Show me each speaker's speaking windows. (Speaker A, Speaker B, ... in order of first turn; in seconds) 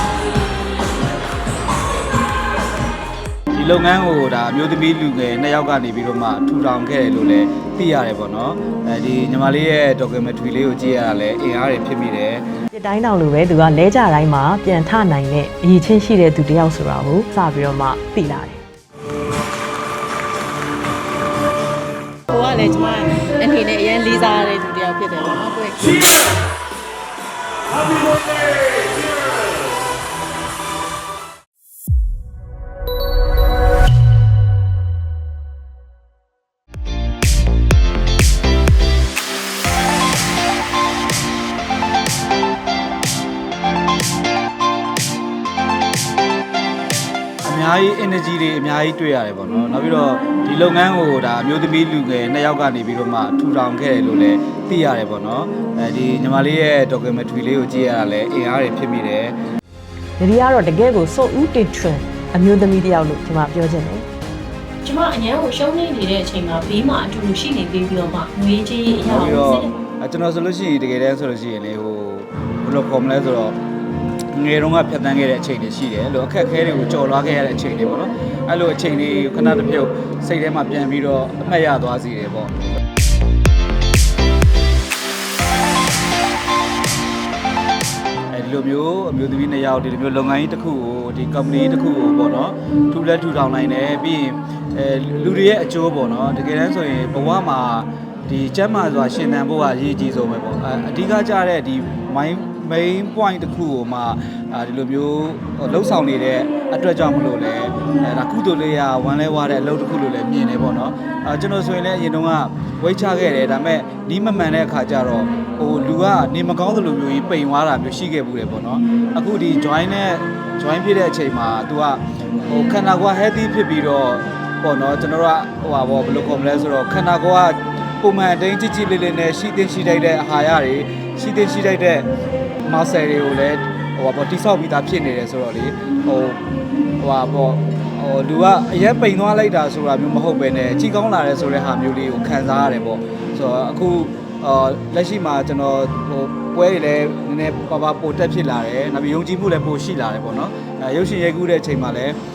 Speaker A: 3.5-12.4, 47.4-59.4, 69.0-73.5, 74.3-82.5, 88.3-132.1, 132.6-136.4, 137.0-152.2
Speaker B: 12.7-18.6, 60.2-64.0
Speaker C: 22.3-26.1
Speaker D: 64.8-69.7